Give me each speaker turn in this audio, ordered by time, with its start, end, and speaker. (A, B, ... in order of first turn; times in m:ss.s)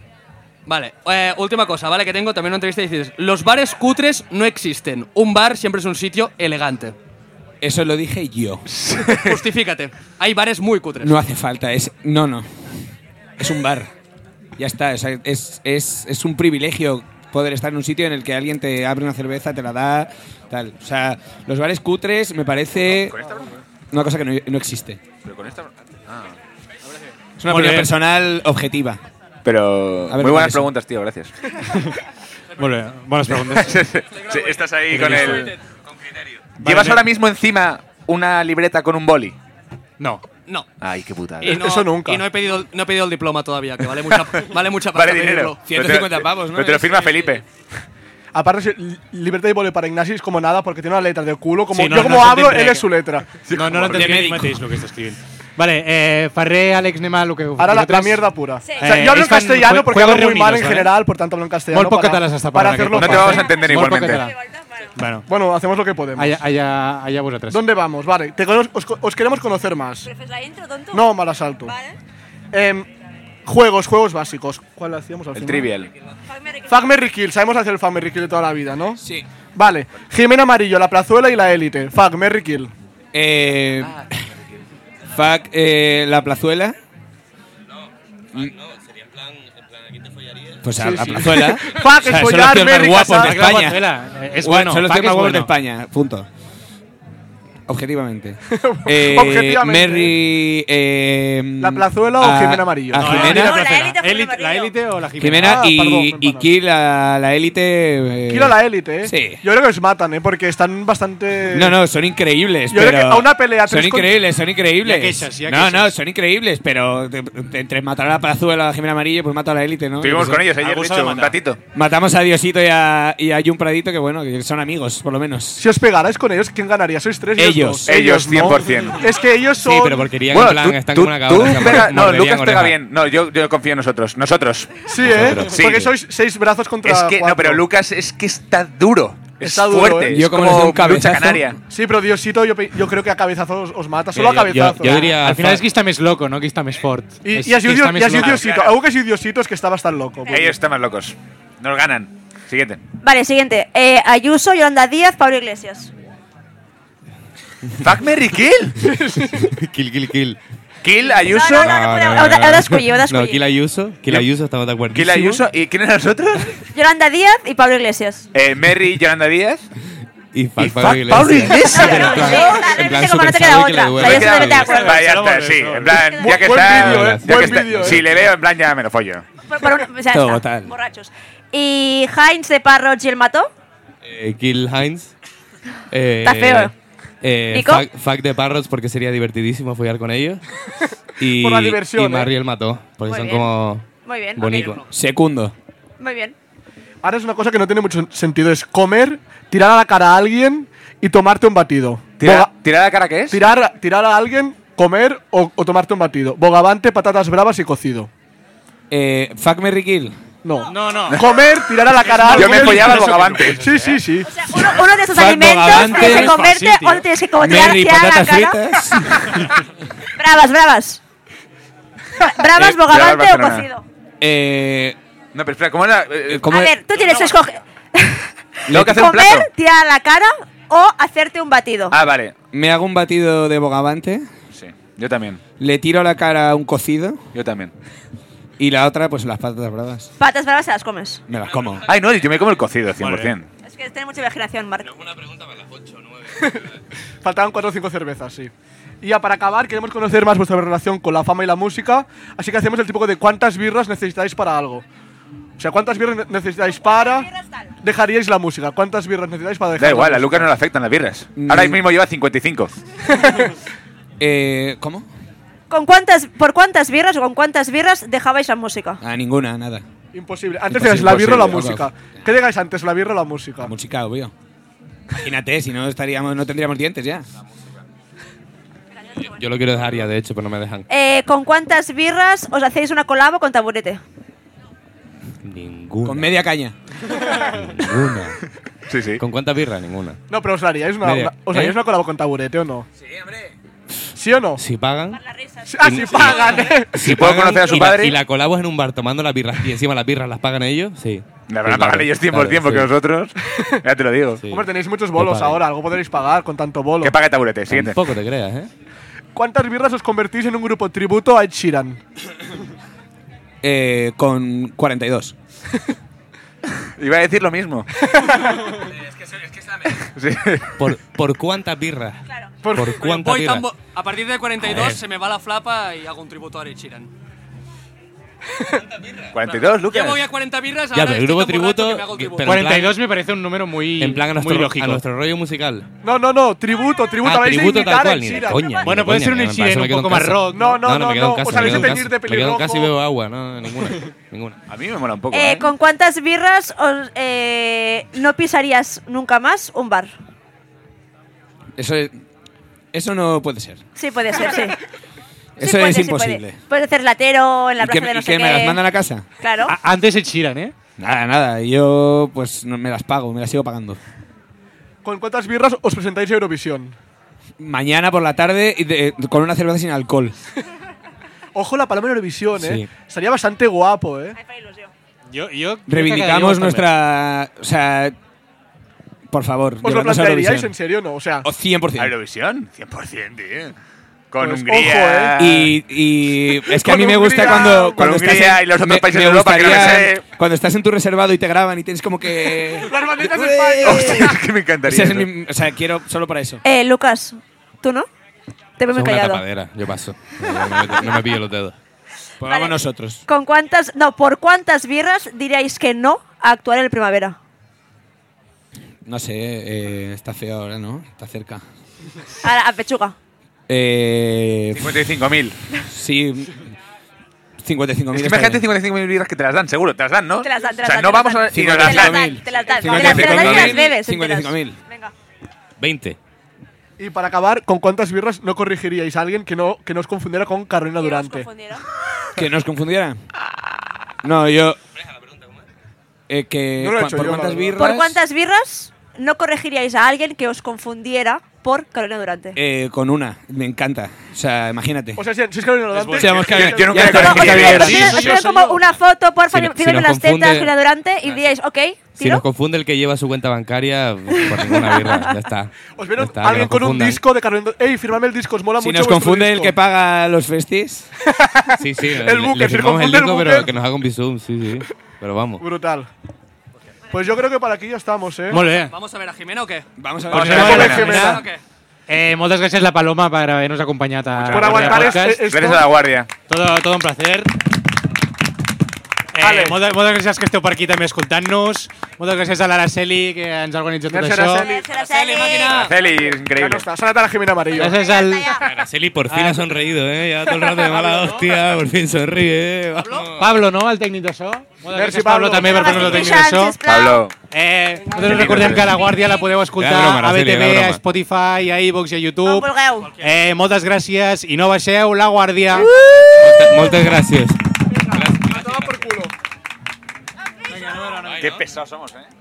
0:00.6-0:06.9 A
0:07.6-0:08.7 B
0:08.7-0:09.3 C
0:09.1-0:11.2 A
0:11.0-0:13.9 B
0:14.6-0:23.2 B
0:23.0-0:23.5 C
0:23.9-0:25.0 B
0:25.2-0:26.3 C
0:27.4-0:29.0 B
0:27.5-0:27.9 D
0:29.4-0:31.5 C
0:30.1-0:30.7 B
0:32.6-0:33.8 D
0:33.3-0:35.5 C
0:34.9-0:35.5 D
0:36.6-0:39.3 C
0:36.6-0:37.1 D
0:40.4-0:40.7 A
0:40.8-0:41.6 C
0:41.4-0:45.6 A
0:41.5-0:42.2 E
0:44.9-0:47.4 C
0:45.6-0:47.2 B
0:48.3-0:53.4 E
0:51.7-0:52.8 D
0:53.4-0:54.2 C
0:53.5-0:58.2 D
0:53.8-0:54.6 B
0:57.6-1:03.5 E
0:58.6-0:58.9 F
0:58.7-1:00.9 D
1:01.7-1:04.3 D
1:03.0-1:04.3 C
1:03.2-1:03.5 F
1:04.4-1:04.9 F
1:05.0-1:05.2 D
1:05.3-1:06.4 E
1:06.2-1:07.6 D
1:07.5-1:10.1 E
1:10.0-1:11.1 F
1:10.9-1:11.7 E
1:11.6-1:12.0 F
1:12.5-1:12.9 E
1:13.4-1:15.7 E
1:15.3-1:15.9 C
1:16.3-1:16.8 F
1:16.7-1:19.0 E
1:19.0-1:19.2 B
1:19.6-1:22.7 E
1:23.1-1:24.2 B
1:25.1-1:26.8 B
1:30.6-1:36.3 B
1:30.8-1:33.4 E
1:33.1-1:35.5 D
1:37.7-1:43.6 B
1:38.5-1:40.2 E
1:41.6-1:44.0 E
1:43.0-1:45.7 D
1:43.2-1:44.7 F
1:45.2-1:49.4 B
1:45.3-1:46.5 E
1:48.3-1:51.8 E
1:51.5-2:00.5 B
1:52.7-1:54.2 E
1:54.8-1:55.9 D
2:00.0-2:01.6 C
2:00.6-2:01.4 D
2:01.7-2:05.6 B
2:05.6-2:10.1 E
2:07.4-2:07.9 B
2:07.8-2:09.1 C
2:09.6-2:12.8 G
2:10.3-2:15.7 C
2:14.9-2:17.6 E
2:15.0-2:15.9 G
2:16.8-2:21.6 C
2:19.4-2:20.2 E
2:20.1-2:21.6 B
2:21.7-2:25.1 E
2:24.1-2:25.6 G
2:24.8-2:28.4 D
2:27.2-2:30.5 E
2:28.2-2:28.7 C
2:30.3-2:32.8 C
2:33.0-2:35.9 F
2:37.8-2:38.9 C
2:38.8-2:39.4 E
2:39.3-2:40.4 G
2:40.8-2:41.8 C
2:41.1-2:43.4 F
2:41.5-2:45.4 G
2:44.9-2:46.6 C
2:46.7-2:48.3 F
2:48.3-2:49.7 C
2:50.3-2:54.8 G
2:50.6-2:52.5 C
2:51.6-2:55.0 F
2:54.0-2:59.2 C
2:54.6-2:56.1 D
2:55.9-2:56.3 F
2:56.2-2:58.0 E
2:56.6-2:58.0 G
2:59.5-3:03.5 F
3:00.1-3:00.7 B
3:04.0-3:05.1 G
3:05.9-3:10.4 G
3:06.2-3:06.7 F
3:07.5-3:07.8 F
3:11.2-3:13.8 G
3:11.3-3:12.3 E
3:13.1-3:13.5 F
3:14.0-3:14.8 F
3:14.4-3:14.8 G
3:14.5-3:14.8 A
3:14.9-3:15.5 B
3:16.0-3:16.3 F
3:17.0-3:22.5 E
3:22.2-3:23.4 C
3:23.3-3:28.1 E
3:28.9-3:30.1 B
3:30.4-3:34.4 E
3:30.7-3:31.2 D
3:31.9-3:34.0 D
3:32.3-3:33.6 C
3:34.3-3:38.6 F
3:34.6-3:37.1 D
3:35.1-3:36.3 B
3:37.4-3:39.6 B
3:40.2-3:41.0 F
3:42.2-3:43.8 F
3:42.5-3:43.7 C
3:44.2-3:45.0 B
3:45.3-3:46.5 C
3:46.3-3:46.7 B
3:46.5-3:51.9 F
3:47.0-3:47.3 A
3:48.7-3:49.5 C
3:48.7-3:49.0 B
3:51.9-3:52.3 C
3:52.5-3:54.3 B
3:54.5-3:55.4 C
3:55.6-3:57.2 B
3:57.3-3:57.7 C
3:58.6-4:00.1 B
4:00.2-4:01.2 F
4:01.3-4:01.9 B
4:01.8-4:03.5 C
4:03.0-4:03.3 D
4:03.6-4:05.0 F
4:05.1-4:05.9 G
4:06.4-4:06.6 E
4:07.2-4:14.8 E
4:15.6-4:17.3 E
4:16.9-4:17.6 F
4:17.8-4:20.5 E
4:19.8-4:22.8 C
4:21.4-4:21.8 B
4:23.2-4:23.5 E
4:24.2-4:25.1 B
4:25.7-4:29.0 F
4:29.0-4:29.8 B
4:30.1-4:33.7 E
4:30.7-4:31.9 B
4:31.1-4:31.6 C
4:33.6-4:34.3 B
4:35.2-4:37.3 B
4:39.2-4:40.8 G
4:40.9-4:44.0 F
4:45.4-4:46.4 G
4:46.0-4:46.7 B
4:47.1-4:48.4 G
4:48.9-4:49.2 C
4:49.2-4:50.2 G
4:50.3-4:52.9 E
4:51.0-4:51.7 G
4:54.2-4:54.6 E
4:54.6-4:55.2 G
4:55.3-4:56.2 F
4:55.6-4:57.1 E
4:55.8-5:02.9 G
4:56.9-4:58.2 C
5:01.5-5:04.4 C
5:04.4-5:05.6 G
5:04.5-5:07.2 E
5:07.0-5:08.0 C
5:07.7-5:08.7 G
5:09.3-5:12.0 E
5:13.6-5:15.3 B
5:17.0-5:18.3 C
5:18.0-5:18.8 E
5:19.7-5:20.7 C
5:20.8-5:22.2 G
5:22.6-5:23.0 E
5:22.7-5:23.7 G
5:22.9-5:27.1 A
5:24.6-5:25.0 G
5:29.3-5:30.3 C
5:29.8-5:32.6 A
5:30.9-5:33.0 G
5:32.4-5:35.0 D
5:34.0-5:35.9 G
5:36.0-5:38.8 E
5:37.2-5:44.6 G
5:38.8-5:40.8 D
5:40.5-5:42.9 E
5:44.7-5:45.7 C
5:45.3-5:50.1 F
5:51.8-5:52.2 B
5:52.9-5:53.8 B
5:54.0-5:54.8 F
5:55.6-5:58.8 F
5:55.6-5:56.6 B
5:57.8-5:59.2 B
5:59.4-5:59.7 F
5:59.7-6:00.7 D
6:01.0-6:04.0 B
6:05.0-6:06.9 E
6:07.6-6:10.3 B
6:11.5-6:14.4 E
6:12.6-6:12.9 G
6:14.4-6:14.9 F
6:15.3-6:16.9 D
6:15.9-6:18.1 B
6:19.3-6:20.7 B
6:19.8-6:21.4 E
6:21.4-6:22.1 B
6:22.0-6:23.8 C
6:24.3-6:25.8 C
6:24.4-6:25.4 E
6:25.4-6:36.6 B
6:26.7-6:28.1 E
6:27.4-6:30.2 C
6:32.8-6:34.2 E
6:33.8-6:35.3 C
6:36.6-6:38.1 F
6:38.8-6:39.4 F
6:38.9-6:41.7 G
6:40.5-6:41.1 F
6:42.4-6:43.2 B
6:42.5-6:42.8 F
6:43.3-6:47.4 F
6:49.0-6:51.6 B
6:52.4-6:53.1 F
6:53.7-6:55.2 B
6:54.7-6:55.6 C
6:55.8-6:56.8 B
6:57.6-6:58.6 B
6:58.1-7:03.9 C
7:00.4-7:05.1 F
7:01.5-7:04.8 B
7:05.8-7:06.2 G
7:07.0-7:11.5 E
7:11.0-7:11.8 F
7:12.4-7:13.2 B
7:14.2-7:14.8 B
7:16.3-7:18.2 B
7:16.8-7:17.8 E
7:17.8-7:22.6 F
7:22.6-7:25.2 B
7:25.2-7:27.8 E
7:26.1-7:28.2 B
7:26.4-7:28.1 C
7:27.3-7:32.4 F
7:27.5-7:28.8 D
7:29.5-7:30.7 G
7:32.2-7:37.2 G
7:34.4-7:35.2 F
7:36.0-7:39.7 E
7:38.8-7:41.1 B
7:41.2-7:43.7 E
7:41.8-7:45.6 G
7:45.6-7:46.1 E
7:47.1-7:48.6 E
7:48.5-7:48.9 D
7:48.6-7:49.8 A
7:50.0-7:51.0 B
7:50.3-7:51.4 D
7:50.4-7:51.4 E
7:50.4-7:51.6 A
7:52.1-7:55.4 D
7:54.4-7:55.9 E
7:54.8-7:56.3 C
7:56.5-7:57.5 D
7:59.3-8:04.7 D
7:59.4-7:59.8 E
8:04.1-8:04.9 E
8:04.6-8:05.9 F
8:04.9-8:05.9 A
8:05.6-8:06.9 C
8:06.0-8:08.0 E
8:07.8-8:08.6 D
8:07.9-8:08.6 F
8:08.4-8:13.6 G
8:09.3-8:09.6 D
8:10.8-8:11.3 D
8:13.0-8:13.3 A
8:13.4-8:16.8 D
8:14.9-8:16.3 E
8:15.6-8:17.2 F
8:16.8-8:17.3 C
8:17.5-8:22.7 D
8:18.1-8:18.8 E
8:18.2-8:18.9 C
8:18.8-8:19.4 F
8:19.8-8:21.0 G
8:22.4-8:23.1 F
8:23.2-8:25.9 D
8:25.7-8:26.7 F
8:26.3-8:27.6 G
8:28.1-8:29.0 G
8:28.1-8:29.3 E
8:30.7-8:31.6 D
8:31.3-8:32.3 C